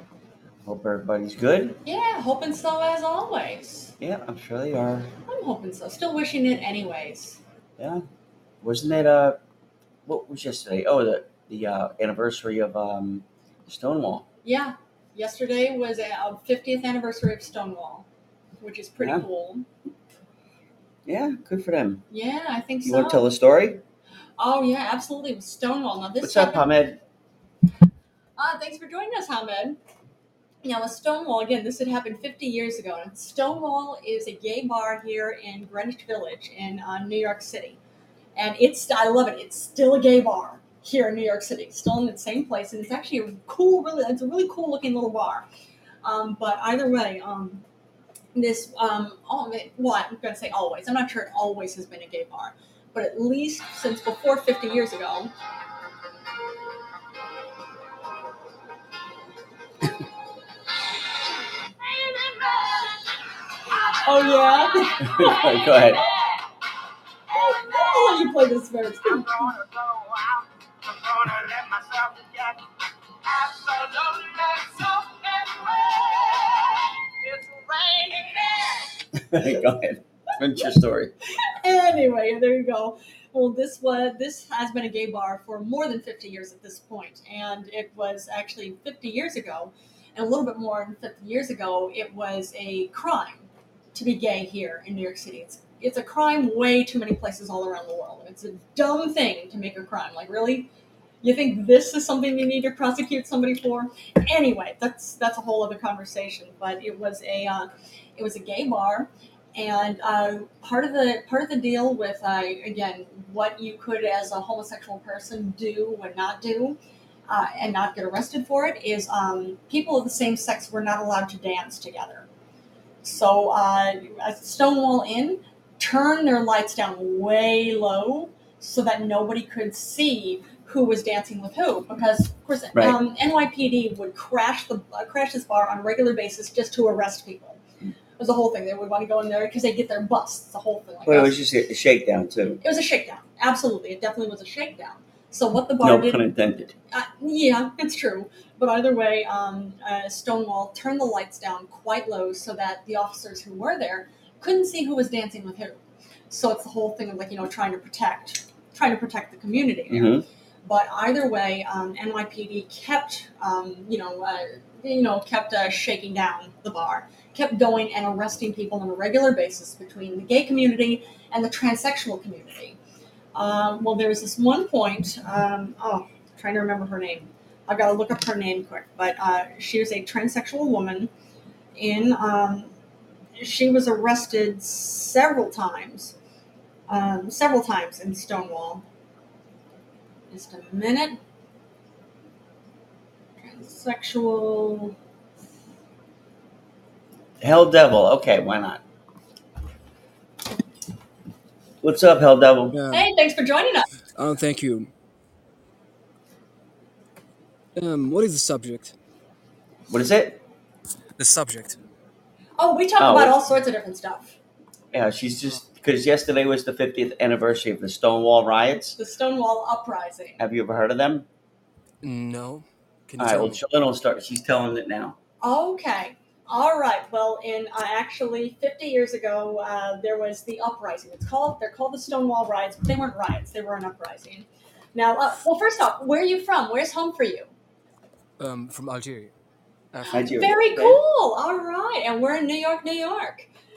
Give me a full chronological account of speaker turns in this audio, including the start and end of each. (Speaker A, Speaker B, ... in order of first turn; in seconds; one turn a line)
Speaker A: 0.6-1.8
Speaker B: 1.9-3.9
Speaker A: 4.0-5.1
Speaker B: 5.3-7.4
Speaker A: 7.8-8.0
Speaker A: 8.6-9.4
Speaker A: 10.1-14.2
Speaker B: 14.4-18.1
Speaker B: 18.6-19.7
Speaker A: 21.1-22.0
Speaker B: 22.1-23.2
Speaker A: 22.9-23.8
Speaker B: 24.4-26.7
Speaker A: 26.2-27.0
Speaker B: 28.4-29.8
Speaker B: 30.6-37.8
Speaker B: 38.4-45.5
Speaker B: 46.0-47.6
Speaker B: 48.4-55.3
Speaker C: 61.9-63.0
Speaker B: 63.9-65.6
Speaker A: 65.0-66.0
Speaker B: 67.3-69.5
Speaker C: 69.5-72.6
Speaker C: 73.3-78.9
Speaker A: 79.1-81.1
Speaker B: 81.4-100.7
Speaker B: 101.2-122.3
Speaker B: 123.0-137.6
Speaker B: 138.2-141.4
Speaker A: 141.1-142.6
Speaker B: 142.6-146.2
Speaker A: 145.8-146.7
Speaker B: 146.9-155.8
Speaker B: 156.3-172.8
Speaker A: 159.9-160.2
Speaker B: 173.3-181.1
Speaker B: 181.8-182.7
Speaker B: 183.4-186.2
Speaker B: 186.9-188.8
Speaker B: 190.3-191.2
Speaker B: 193.4-194.9
Speaker A: 197.4-198.8
Speaker A: 201.8-202.8
Speaker D: 202.7-203.1
Speaker B: 202.9-203.9
Speaker D: 204.2-204.9
Speaker D: 207.8-208.9
Speaker A: 209.9-210.4
Speaker D: 211.2-211.8
Speaker B: 212.6-214.4
Speaker A: 213.0-213.4
Speaker A: 214.9-219.0
Speaker B: 219.0-220.4
Speaker A: 220.4-221.3
Speaker D: 222.0-223.6
Speaker A: 223.2-225.2
Speaker B: 225.4-237.5
Speaker D: 238.4-239.3
Speaker D: 239.9-240.5
Speaker B: 240.1-243.5
Speaker A: 240.1-241.0